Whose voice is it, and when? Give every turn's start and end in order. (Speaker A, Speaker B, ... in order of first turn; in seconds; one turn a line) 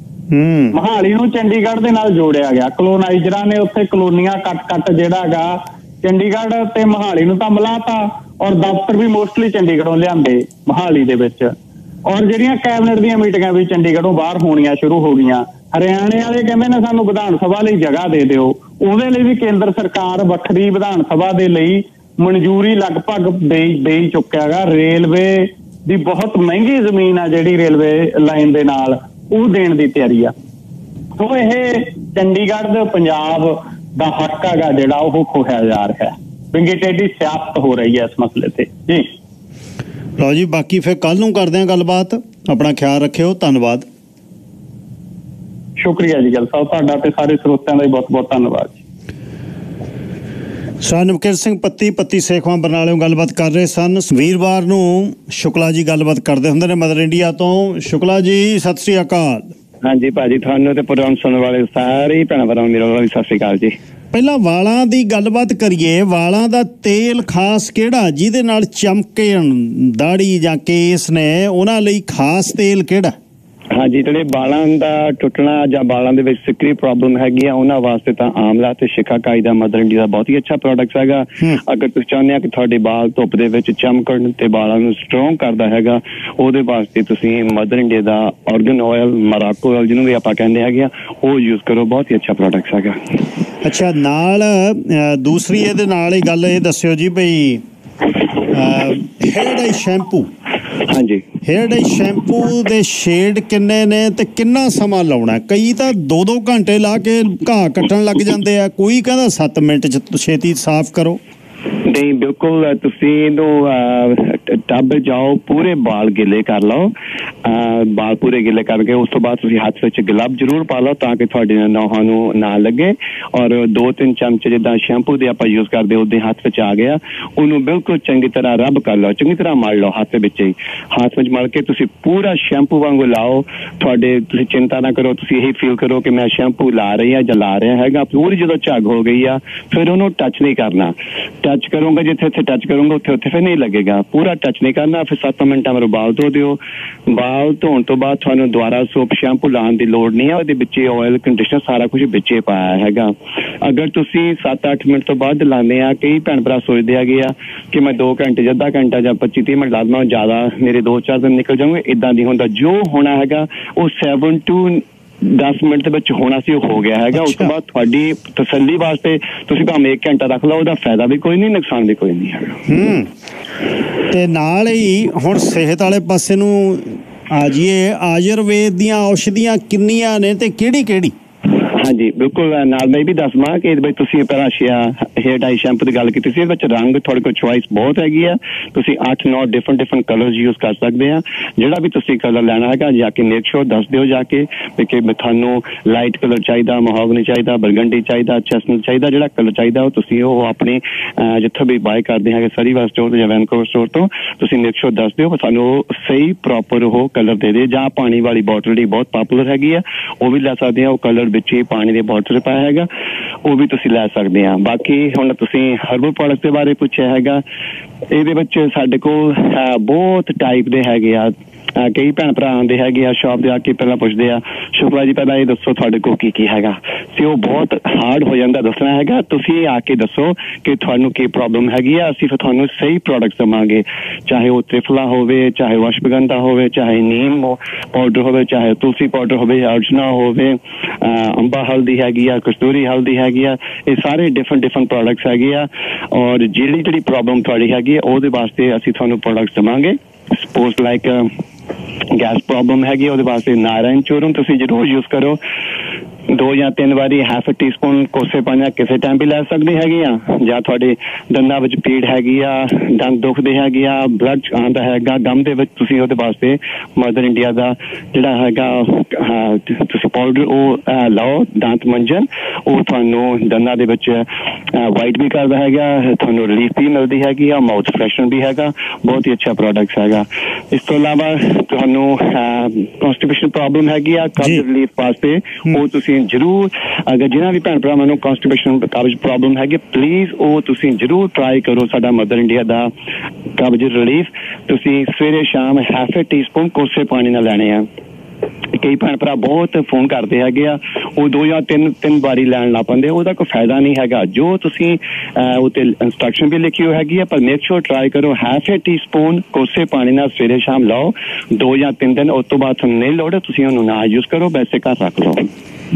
Speaker A: 0.3-0.8
Speaker B: 0.7-11.5
Speaker B: 12.1-30.3
Speaker B: 31.2-39.1
Speaker A: 40.2-43.9
Speaker B: 45.8-48.8
Speaker A: 50.8-59.5
Speaker C: 59.8-63.8
Speaker A: 64.1-73.2
Speaker C: 73.7-93.0
Speaker A: 93.6-97.6
Speaker A: 98.5-100.3
Speaker C: 100.9-101.2
Speaker A: 101.5-111.2
Speaker C: 111.8-116.9
Speaker C: 117.5-172.6
Speaker A: 167.1-167.5
Speaker A: 172.7-173.1
Speaker A: 174.1-181.1
Speaker C: 181.7-212.9
Speaker C: 213.4-217.4
Speaker C: 218.1-251.3
Speaker C: 252.1-255.4
Speaker C: 256.3-292.9
Speaker C: 293.6-297.9
Speaker C: 298.8-315.5